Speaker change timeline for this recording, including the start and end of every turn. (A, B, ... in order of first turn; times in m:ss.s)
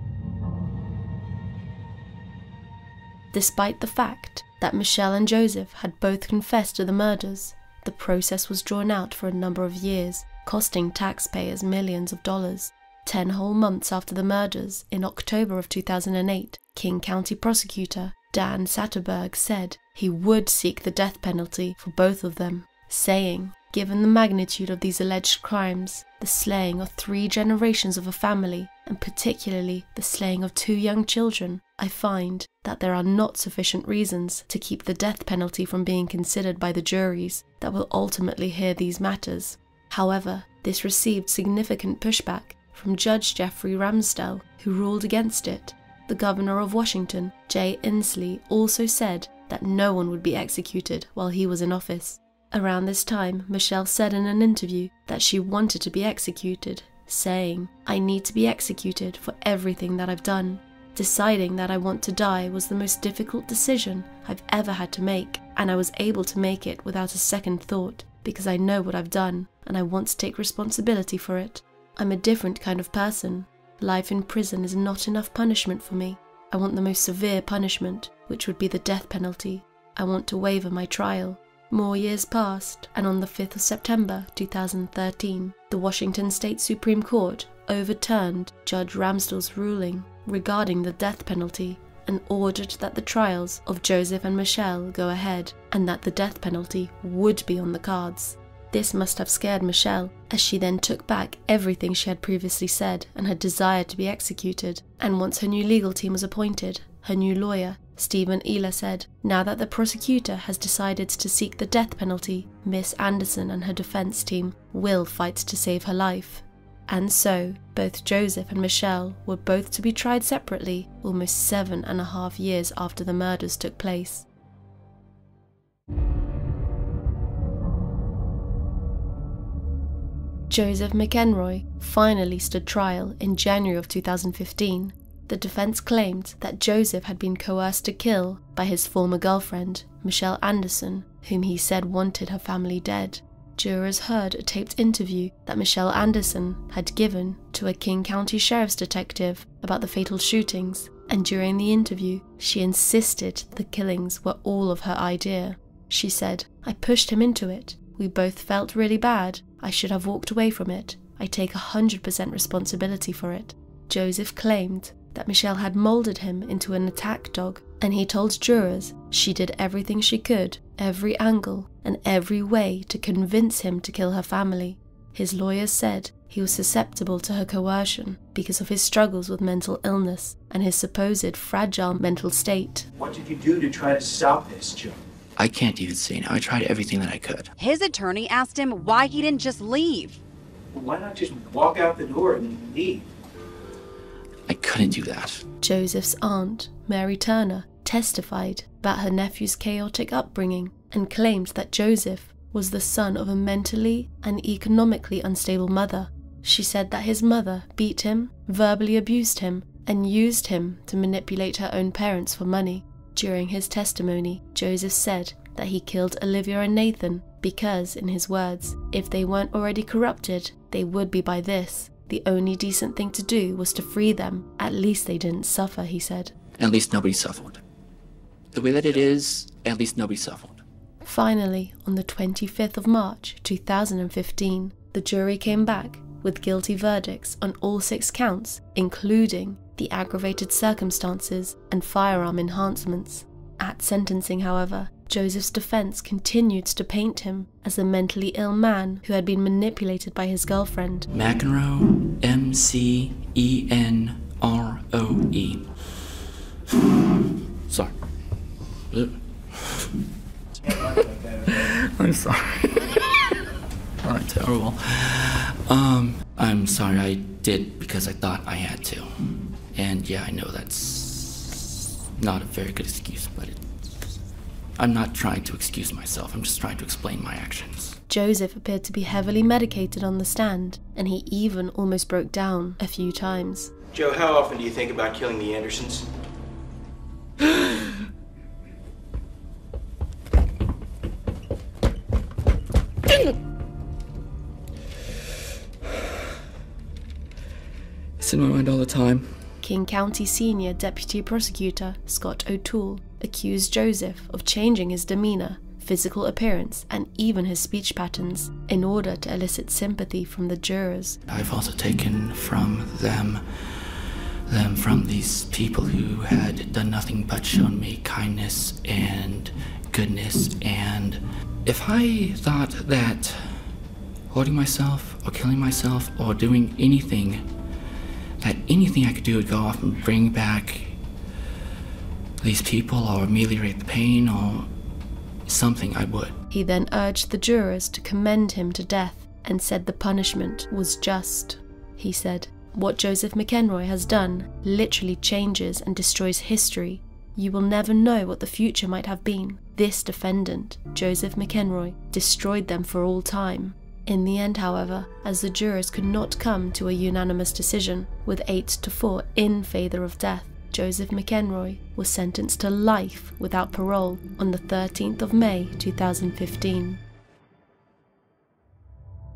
0:03.3-2:04.2 A
2:10.5-3:02.9 A
3:03.0-3:05.0 B
3:05.4-3:07.5 C
3:07.6-3:10.2 D
3:10.7-3:13.0 B
3:14.5-3:15.4 C
3:15.6-3:46.3 A
3:46.6-3:47.6 C
3:48.5-3:50.6 C
3:51.0-4:11.1 A
4:11.1-4:15.8 C
4:17.7-4:17.9 C
4:18.9-4:19.9 C
4:20.7-4:23.4 C
4:21.1-4:21.4 B
4:24.0-4:33.6 C
4:34.8-4:38.0 C
4:38.1-4:43.7 A
4:43.9-4:46.1 B
4:58.2-4:59.4 C
4:59.6-5:11.2 A
5:11.3-5:23.7 C
5:24.3-5:27.5 C
5:28.4-5:31.0 C
5:32.4-5:34.7 C
5:35.4-5:36.4 C
5:36.5-6:07.0 A